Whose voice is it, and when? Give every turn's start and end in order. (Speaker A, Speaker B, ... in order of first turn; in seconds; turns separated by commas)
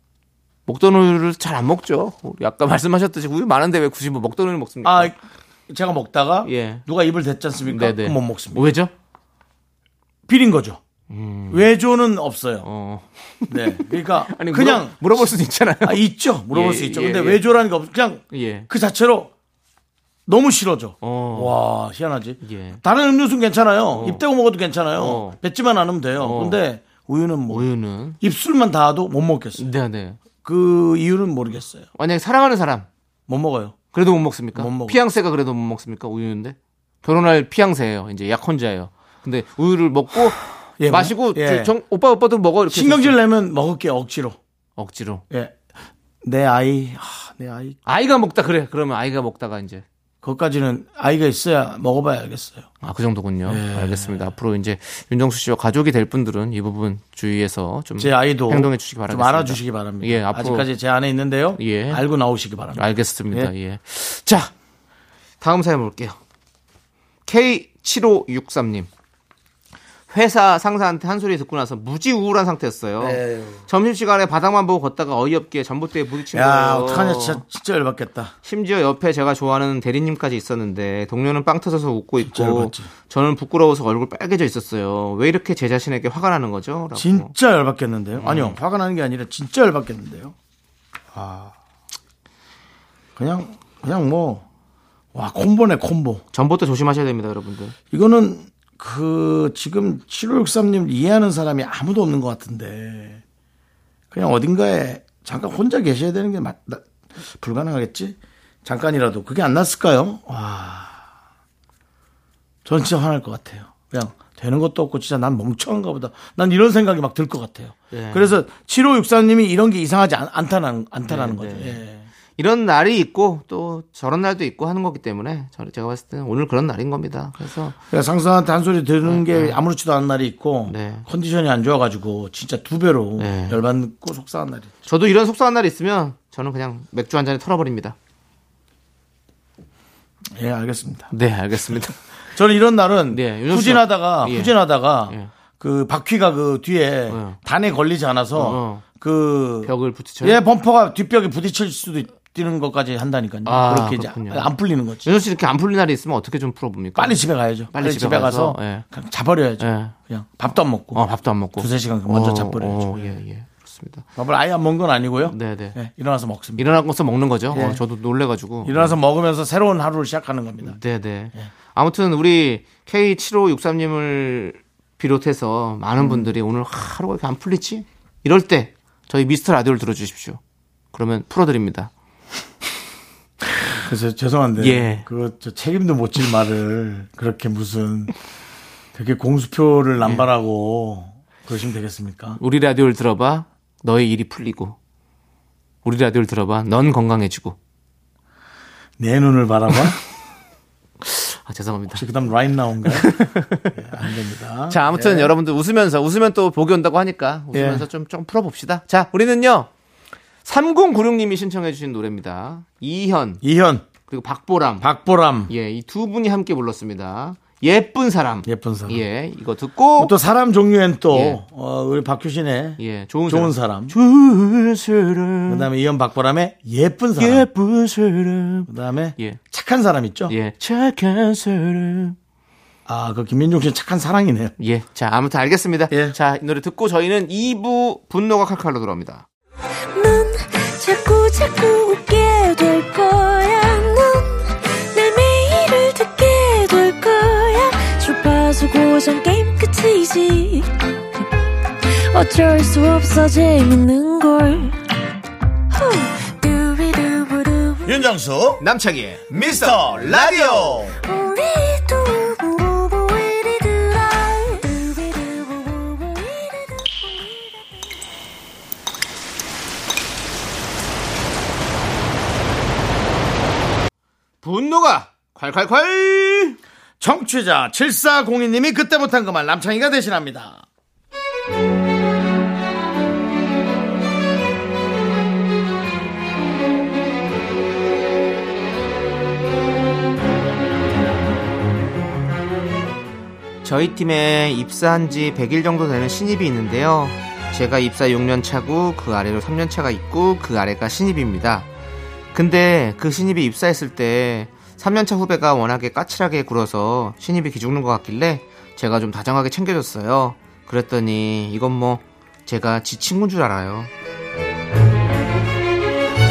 Speaker A: 0.7-5.1, Speaker B: 4.8-5.2, Speaker B: 5.7-8.7, Speaker A: 6.4-6.8, Speaker A: 7.7-8.9, Speaker B: 10.3-10.8, Speaker A: 11.1-11.7, Speaker B: 11.5-12.7, Speaker A: 12.6-17.4, Speaker B: 13.5-19.3, Speaker A: 18.3-18.7, Speaker B: 20.3-27.7, Speaker A: 21.0-21.6, Speaker A: 22.4-22.8, Speaker A: 23.9-24.2, Speaker A: 25.0-25.4, Speaker A: 26.2-26.6, Speaker A: 27.5-28.2, Speaker B: 28.2-29.7, Speaker A: 29.6-30.2, Speaker B: 30.4-31.9, Speaker A: 32.0-32.9, Speaker B: 33.3-33.8, Speaker A: 33.9-43.2, Speaker B: 34.5-35.0, Speaker B: 40.8-41.8, Speaker B: 42.7-44.4, Speaker A: 44.8-45.2, Speaker B: 45.3-45.6, Speaker B: 46.2-47.8, Speaker A: 47.9-49.8, Speaker B: 50.2-52.7, Speaker A: 52.8-60.7, Speaker B: 53.5-54.3, Speaker B: 58.0-63.5, Speaker A: 61.6-62.0, Speaker A: 62.8-64.5, Speaker A: 65.4-66.2, Speaker A: 67.3-68.9, Speaker A: 70.1-77.4, Speaker B: 73.0-73.7, Speaker B: 76.3-78.3, Speaker A: 78.5-87.3, Speaker B: 82.2-82.9, Speaker B: 86.9-90.3, Speaker A: 88.2-88.6, Speaker B: 91.1-91.5, Speaker B: 93.2-94.4, Speaker B: 95.1-96.2, Speaker A: 96.3-97.8, Speaker B: 97.9-103.2, Speaker B: 104.1-111.0, Speaker B: 112.7-122.1, Speaker A: 117.9-118.4, Speaker A: 121.0-121.8, Speaker A: 122.4-127.8, Speaker B: 127.9-134.7, Speaker A: 129.0-129.6, Speaker A: 130.7-131.1, Speaker A: 133.2-133.6, Speaker A: 134.9-138.0, Speaker B: 140.3-141.1, Speaker A: 141.1-142.0, Speaker B: 142.3-155.1, Speaker A: 143.1-144.5, Speaker A: 147.1-147.4, Speaker A: 148.3-148.8, Speaker A: 149.6-150.4, Speaker A: 153.5-154.5, Speaker A: 155.0-157.2, Speaker B: 157.0-161.0, Speaker A: 157.7-158.9, Speaker A: 159.6-159.9, Speaker A: 160.9-164.1, Speaker B: 161.6-163.2, Speaker B: 164.2-166.8, Speaker A: 165.3-165.8, Speaker A: 166.6-169.0, Speaker B: 167.5-167.8, Speaker B: 168.6-170.8, Speaker A: 170.6-180.4, Speaker B: 176.0-176.3, Speaker A: 180.9-181.9, Speaker B: 183.6-188.1, Speaker A: 184.6-185.1, Speaker B: 188.9-192.4, Speaker A: 190.0-190.3, Speaker A: 192.4-194.8, Speaker A: 195.8-197.6, Speaker B: 199.0-200.0, Speaker A: 201.0-202.1, Speaker B: 201.9-205.3, Speaker A: 202.8-204.1, Speaker A: 204.7-209.7, Speaker B: 207.5-207.9, Speaker A: 210.4-213.4, Speaker B: 213.4-213.9, Speaker A: 214.1-214.9, Speaker B: 214.8-215.5, Speaker A: 215.5-220.1, Speaker B: 218.4-219.0, Speaker B: 220.0-223.9, Speaker A: 221.1-221.4, Speaker A: 222.8-225.7, Speaker B: 225.5-227.5, Speaker A: 227.2-229.4, Speaker B: 228.7-230.3, Speaker A: 230.3-232.2, Speaker B: 232.9-234.5, Speaker A: 234.6-239.2, Speaker B: 235.9-236.2, Speaker C: 239.9-251.3, Speaker C: 251.9-254.8, Speaker C: 255.7-257.9, Speaker B: 257.9-258.6, Speaker A: 258.6-260.9, Speaker B: 259.3-261.0, Speaker C: 261.0-267.6, Speaker A: 274.4-276.6, Speaker B: 277.0-280.7, Speaker A: 293.6-301.7, Speaker A: 302.3-313.9